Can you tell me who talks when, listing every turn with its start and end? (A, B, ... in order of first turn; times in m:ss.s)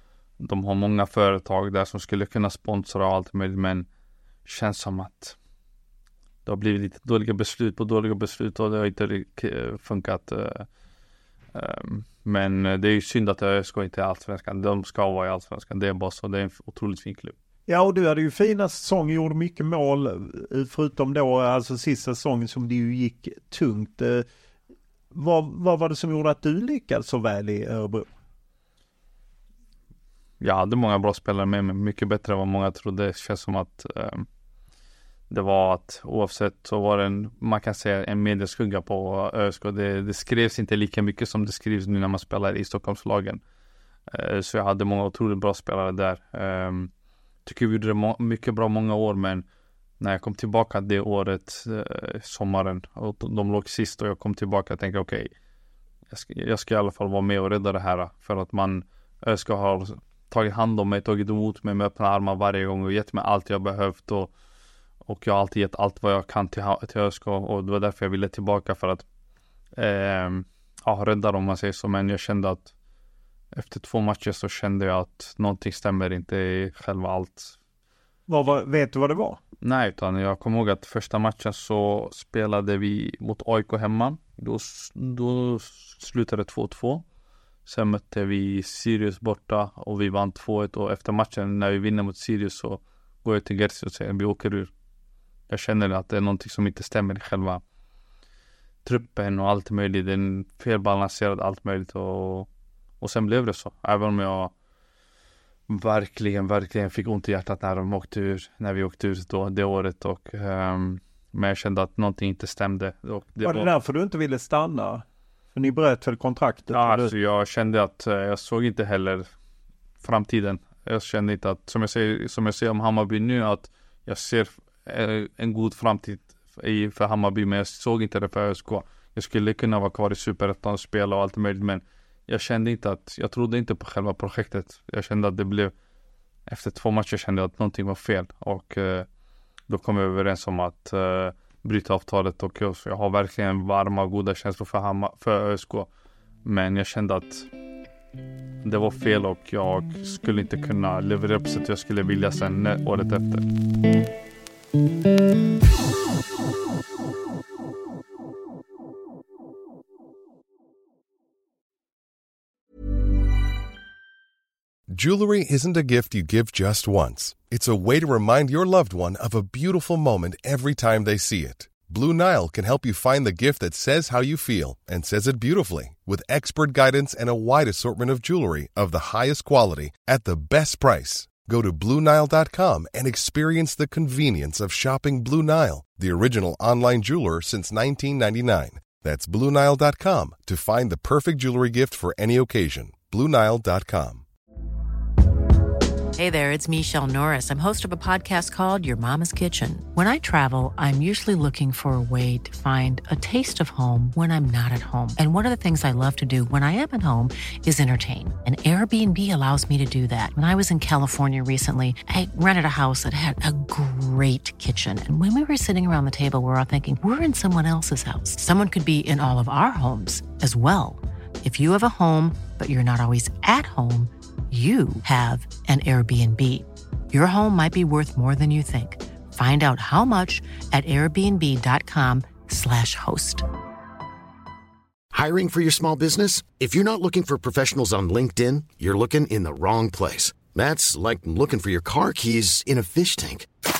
0:00.4-0:03.8 A
0:04.4-0:05.4 A
0:06.4-0:10.7 A
0:11.5-0:17.3 A
0:17.7-0:24.2 B
0:25.1-0:28.1 B
0:30.4-0:34.2 A
0:35.3-0:43.4 A
0:44.1-0:46.9 A
0:47.4-0:49.4 A
0:50.0-0:55.3 A
0:56.1-1:04.3 A
1:05.0-1:09.0 A
1:09.7-1:12.7 A
1:13.5-1:17.5 A
1:18.3-1:19.4 B
1:19.6-1:27.0 A
1:27.6-1:34.7 A
1:35.5-1:37.6 A
1:38.8-1:42.5 A
1:43.0-1:44.5 A
1:45.7-1:53.7 A
1:53.4-1:57.1 B
1:56.7-1:59.3 A
2:00.0-2:15.7 A
2:16.5-2:19.1 A
2:19.7-2:25.9 A
2:26.4-2:27.5 A
2:28.6-2:33.4 A
2:44.9-3:14.2 C
3:16.1-3:53.5 D
3:55.1-4:03.5 E